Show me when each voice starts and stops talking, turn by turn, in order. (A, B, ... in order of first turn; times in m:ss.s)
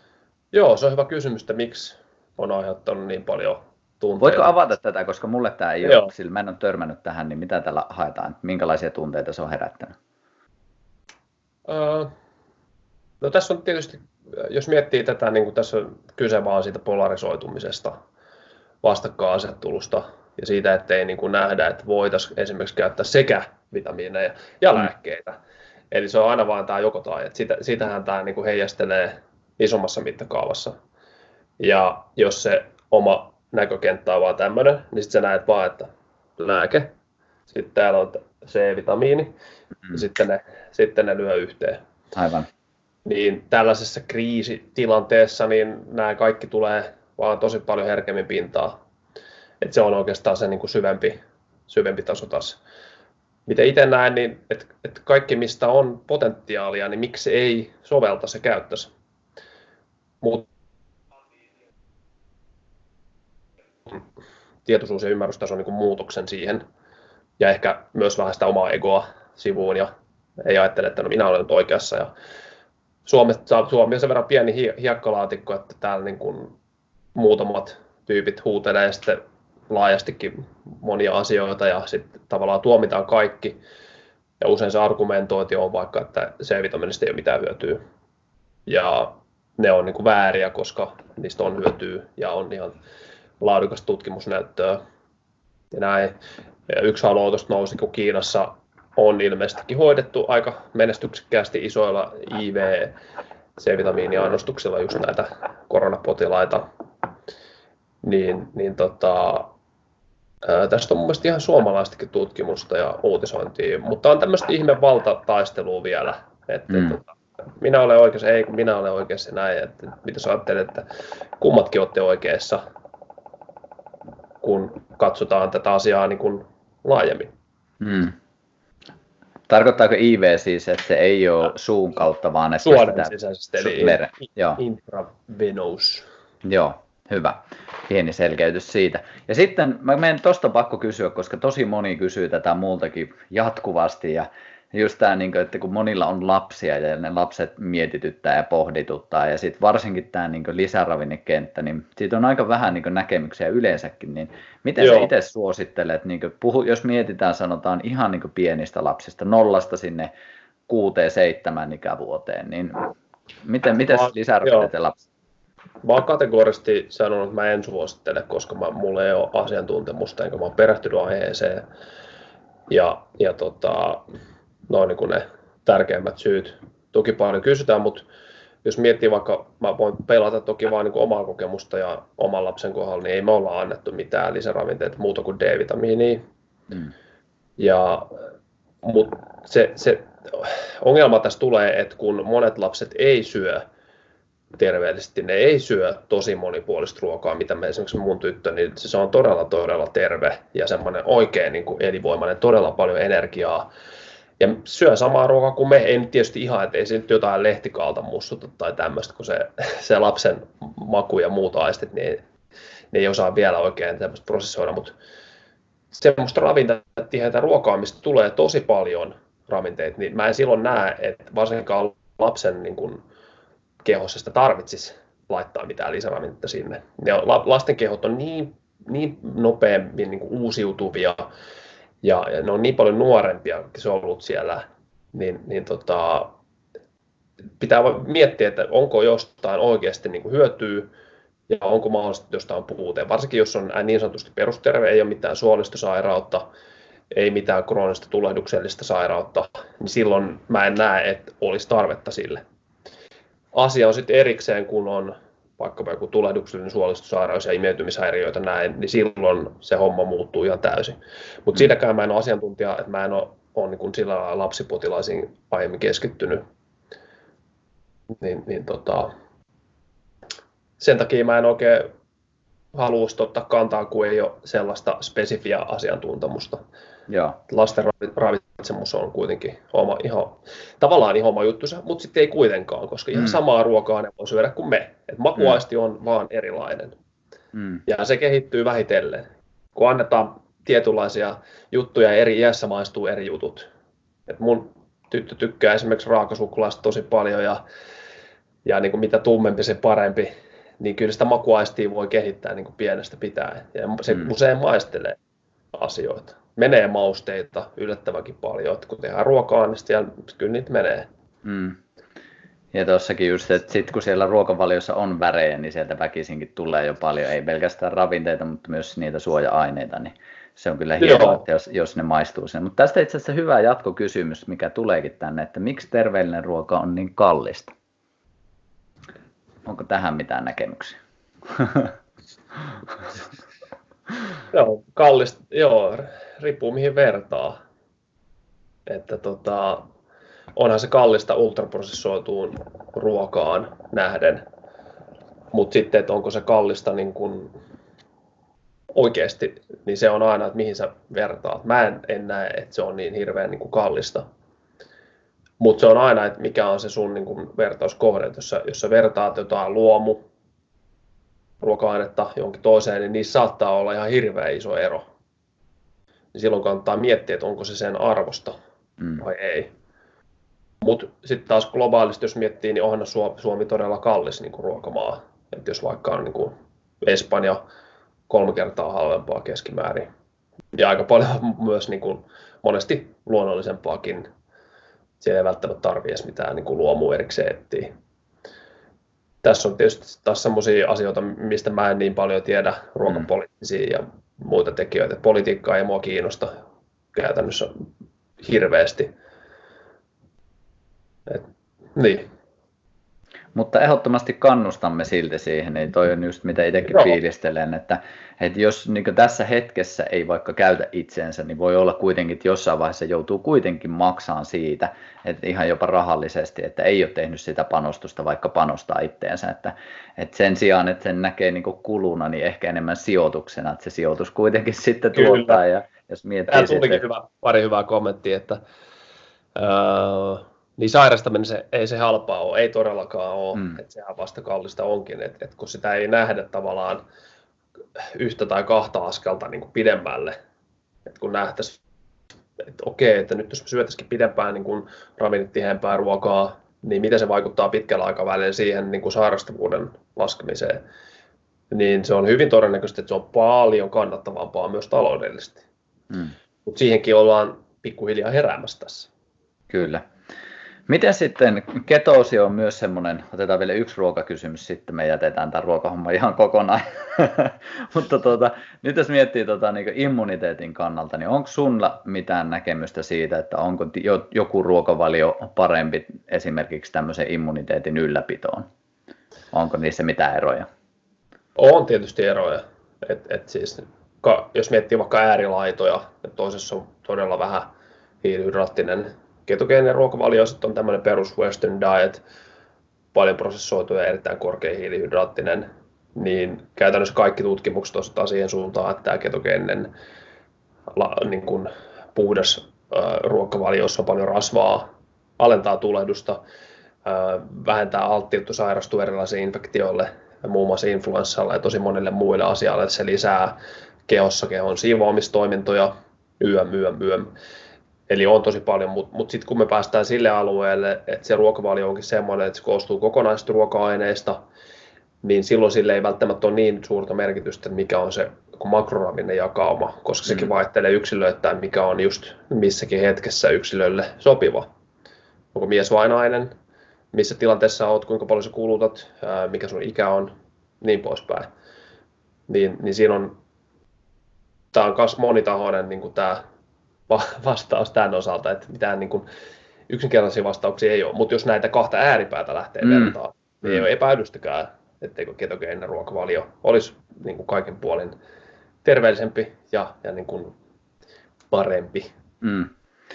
0:00.5-0:04.5 A
0:04.2-0:09.9 B
0:05.8-0:06.1 A
0:11.7-0:12.1 A
0:13.2-0:18.0 A
0:18.8-0:25.4 A
0:25.9-0:30.7 A
0:31.6-0:36.9 A
0:37.5-0:39.3 A
0:39.9-0:41.8 A
0:42.1-0:42.5 B
0:43.0-0:48.7 A
0:49.6-0:51.2 A
0:51.7-0:52.6 A
0:53.4-0:58.9 A
1:00.2-1:00.5 A
1:04.6-1:06.6 A
1:07.4-1:09.9 A
1:10.4-1:12.1 A
1:13.0-1:16.6 A
1:17.1-1:23.6 A
1:24.4-1:27.8 A
1:28.6-1:32.8 A
1:33.4-1:34.8 A
1:35.7-1:36.2 A
1:36.7-1:43.0 A
1:43.6-1:46.6 A
1:48.0-1:49.5 A
1:50.4-2:00.8 A
1:56.7-1:57.0 B
2:01.4-2:02.6 A
2:04.4-2:07.3 A
2:07.8-2:08.2 B
2:09.5-2:14.6 B
2:12.6-2:14.0 A
2:14.6-2:16.0 A
2:16.4-2:40.1 B
2:34.8-2:35.1 A
2:40.7-2:42.9 B
2:43.4-2:45.0 B
2:43.9-2:44.7 A
2:45.8-2:51.6 A
2:52.7-2:54.0 A
2:54.7-2:58.0 A
2:58.6-3:06.2 A
3:07.6-3:08.2 A
3:08.8-3:13.6 A
3:14.6-3:23.7 A
3:24.4-3:32.2 A
3:32.9-3:34.9 A
3:35.9-3:43.0 A
3:43.8-3:51.3 A
3:52.0-3:56.3 A
3:57.6-4:00.9 A
4:01.5-4:06.4 A
4:07.1-4:12.4 A
4:13.5-4:26.4 A
4:28.1-4:29.1 A
4:30.8-4:31.9 A
4:32.7-4:36.6 A
4:37.1-4:37.4 B
4:37.5-4:46.9 A
4:47.5-4:47.8 B
4:47.9-4:53.7 A
4:54.3-4:57.6 A
4:58.6-5:05.2 A
5:05.7-5:11.1 A
5:11.4-5:11.8 B
5:12.7-5:27.7 B
5:21.0-5:21.4 A
5:29.6-5:31.9 B
5:34.5-5:37.6 A
5:38.9-5:39.9 A
5:40.6-5:44.4 A
5:45.5-5:47.5 A
5:48.9-5:54.2 A
5:55.6-6:00.2 A
6:01.6-6:05.0 A
6:06.3-6:08.6 A
6:09.2-6:09.7 A
6:10.8-6:17.6 A
6:18.3-6:20.1 A
6:20.7-6:24.3 A
6:25.2-6:27.9 A
6:29.4-6:36.5 A
6:37.1-6:37.8 A
6:38.4-6:39.1 A
6:41.3-6:42.2 A
6:43.5-7:07.0 B
7:05.1-7:05.6 A
7:06.5-7:08.6 A
7:09.6-7:17.0 A
7:18.0-7:20.3 A
7:21.0-7:21.8 A
7:22.6-7:30.8 A
7:31.7-7:35.6 A
7:36.6-7:39.1 A
7:39.7-7:40.0 B
7:40.9-7:58.7 B
7:59.5-8:00.7 B
8:01.6-8:12.2 A
8:13.1-8:19.9 A
8:20.9-8:26.4 A
8:27.0-8:37.3 A
8:38.1-8:44.4 A
8:45.2-8:54.7 A
8:55.5-8:56.5 A
8:57.1-9:01.5 A
9:02.5-9:03.4 A
9:04.7-9:06.4 A
9:07.1-9:09.2 A
9:09.9-9:18.1 A
9:12.8-9:13.2 B
9:18.8-9:20.5 A
9:21.5-9:22.1 A
9:22.4-9:22.7 B